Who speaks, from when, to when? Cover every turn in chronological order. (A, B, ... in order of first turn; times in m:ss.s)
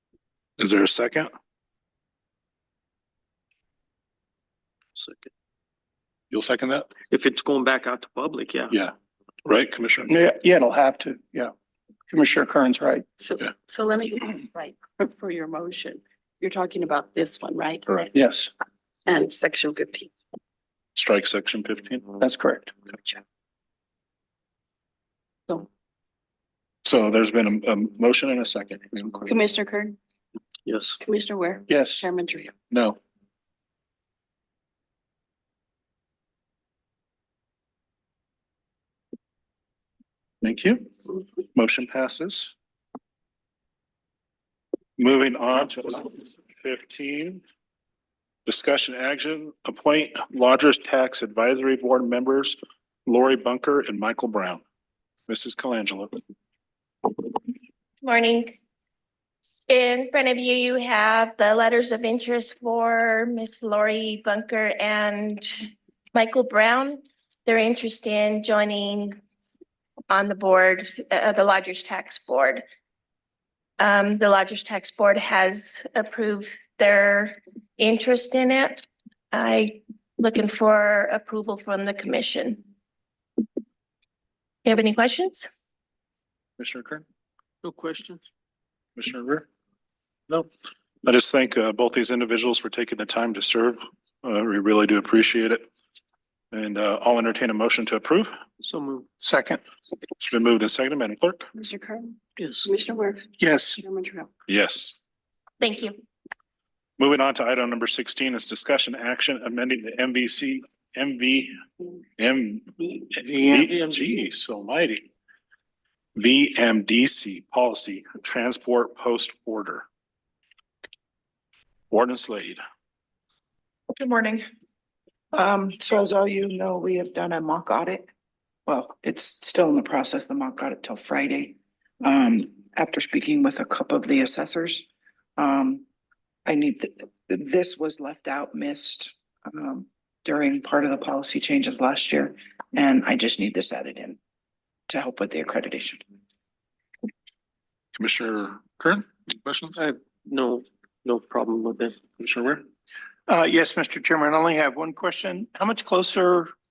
0:00.6-0:01.3 A
0:05.0-0:05.3 B
0:06.3-0:06.9 A
0:07.1-0:08.7 B
0:09.4-0:10.1 A
0:10.0-0:11.5 C
0:12.1-0:13.1 C
0:13.2-0:18.2 D
0:18.1-0:18.5 C
0:19.0-0:20.1 D
0:21.0-0:22.1 A
0:22.2-0:22.7 C
0:26.8-0:29.3 A
0:29.2-0:30.0 D
0:30.6-0:31.0 B
0:31.0-0:32.5 D
0:31.7-0:32.0 C
0:32.7-0:33.0 A
0:40.4-0:40.9 A
0:41.5-0:42.5 A
0:45.0-0:47.4 A
0:48.4-0:54.6 A
0:55.3-0:56.2 A
0:58.0-0:58.6 E
0:59.6-1:09.2 E
1:10.1-1:12.6 E
1:13.8-1:22.6 E
1:24.6-1:25.6 E
1:26.6-1:27.0 A
1:27.6-1:28.2 B
1:29.0-1:29.4 A
1:31.0-1:35.6 A
1:36.5-1:38.3 A
1:38.6-1:39.1 B
1:39.2-1:39.6 C
1:40.2-1:41.4 A
1:41.6-1:44.3 D
1:42.4-1:42.7 B
1:43.4-1:43.8 C
1:44.5-1:45.0 A
1:45.6-1:45.9 E
1:47.0-1:51.5 A
1:52.2-1:55.0 A
1:53.2-1:53.8 C
1:56.2-1:59.8 A
2:01.9-2:02.6 A
2:03.9-2:04.4 F
2:05.3-2:08.1 F
2:08.7-2:14.8 F
2:15.4-2:15.8 F
2:16.4-2:24.2 F
2:24.9-2:26.0 F
2:27.9-2:29.8 A
2:29.8-2:32.0 B
2:32.2-2:32.6 A
2:33.3-2:36.5 C